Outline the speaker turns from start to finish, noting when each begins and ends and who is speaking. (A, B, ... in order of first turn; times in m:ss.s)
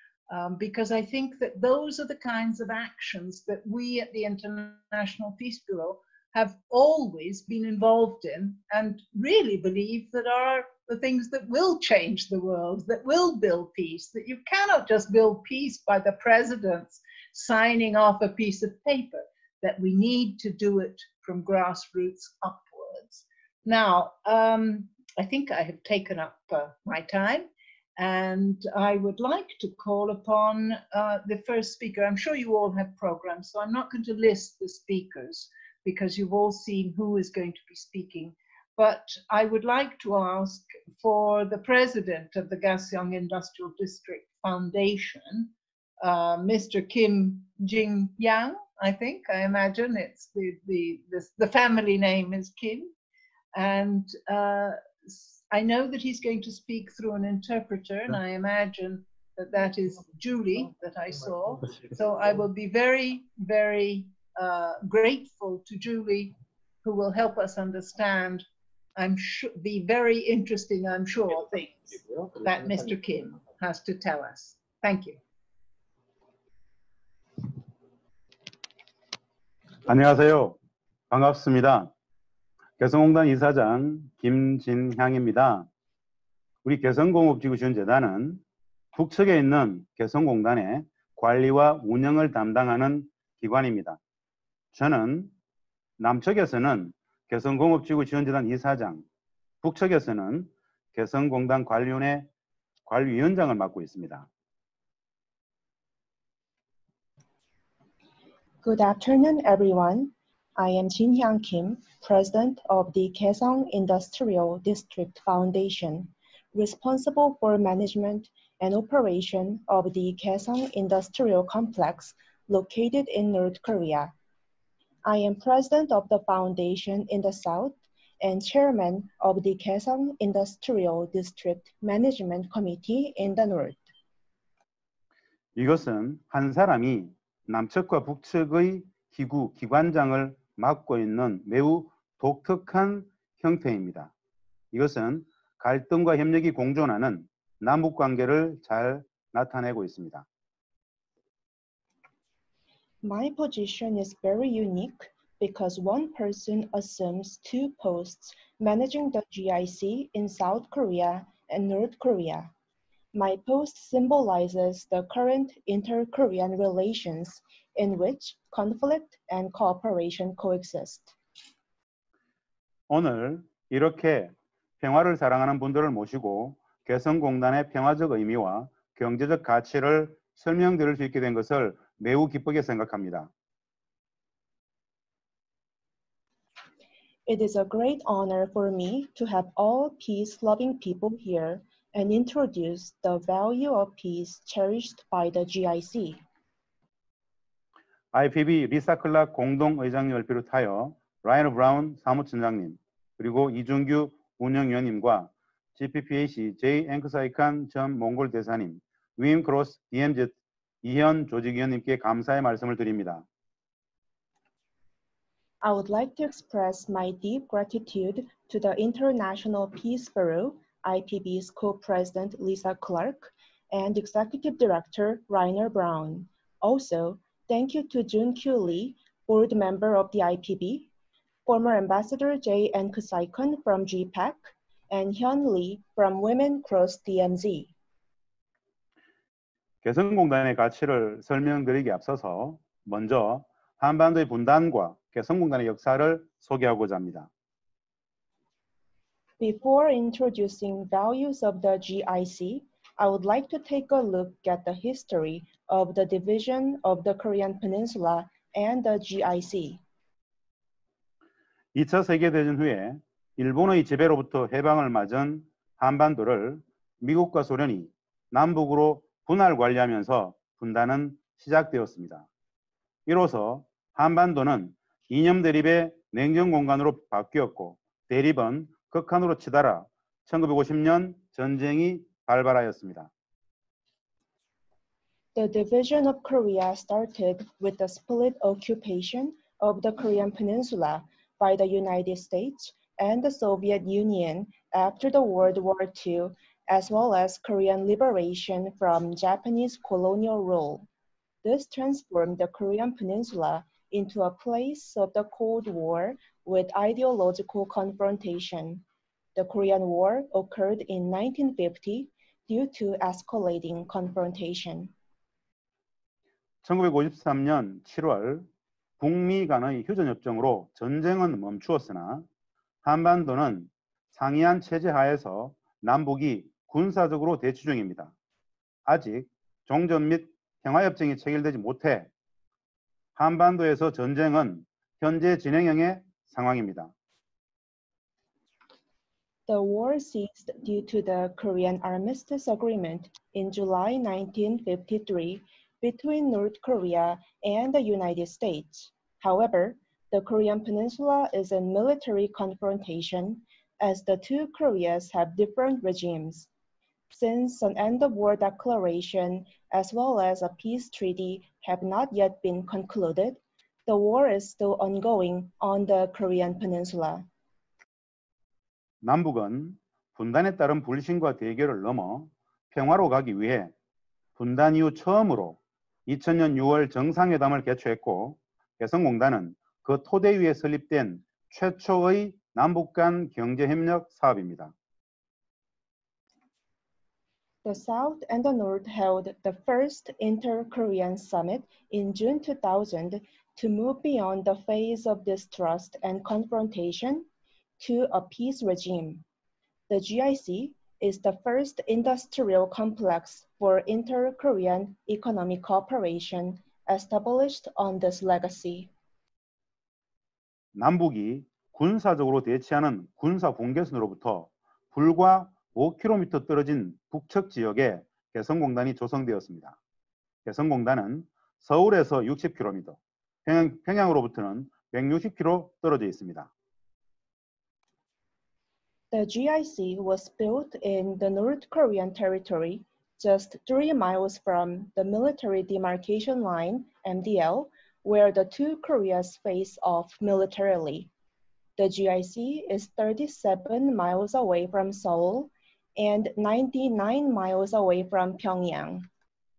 0:00.3-0:52.9 A
0:53.5-1:08.4 A
1:09.0-1:15.2 A
1:19.9-1:20.6 B
1:21.1-1:21.9 B
1:22.8-1:25.7 B
1:26.6-1:28.4 B
1:29.0-1:34.0 B
1:34.7-1:35.3 B
1:36.0-1:39.0 B
1:39.6-1:42.3 B
1:42.9-1:44.3 B
1:48.6-2:04.2 C
2:05.0-2:13.8 C
2:15.6-2:24.1 B
2:24.7-2:30.3 B
2:33.0-2:42.5 C
2:43.1-2:51.2 C
2:52.9-3:03.3 B
3:07.3-3:16.2 C
3:18.1-3:33.2 B
3:35.6-3:50.9 C
3:51.5-3:57.7 C
3:59.8-4:07.3 B
4:09.4-4:19.8 C
4:21.8-4:32.3 B
4:33.1-4:43.1 B
4:45.4-5:00.9 C
5:01.4-5:08.8 C
5:09.4-5:14.9 C
5:16.6-5:18.5 B
5:19.0-5:22.3 B
5:22.8-5:28.1 B
5:28.9-5:32.1 B
5:33.2-5:36.9 B
5:39.5-5:56.5 C
5:57.1-6:07.3 C
6:09.0-6:13.7 B
6:14.4-6:24.7 B
6:27.6-6:37.3 C
6:37.8-6:39.2 C
6:39.9-6:48.9 C
6:50.8-6:59.8 B
7:00.5-7:06.5 B
7:09.1-7:21.1 C
7:21.8-7:29.1 C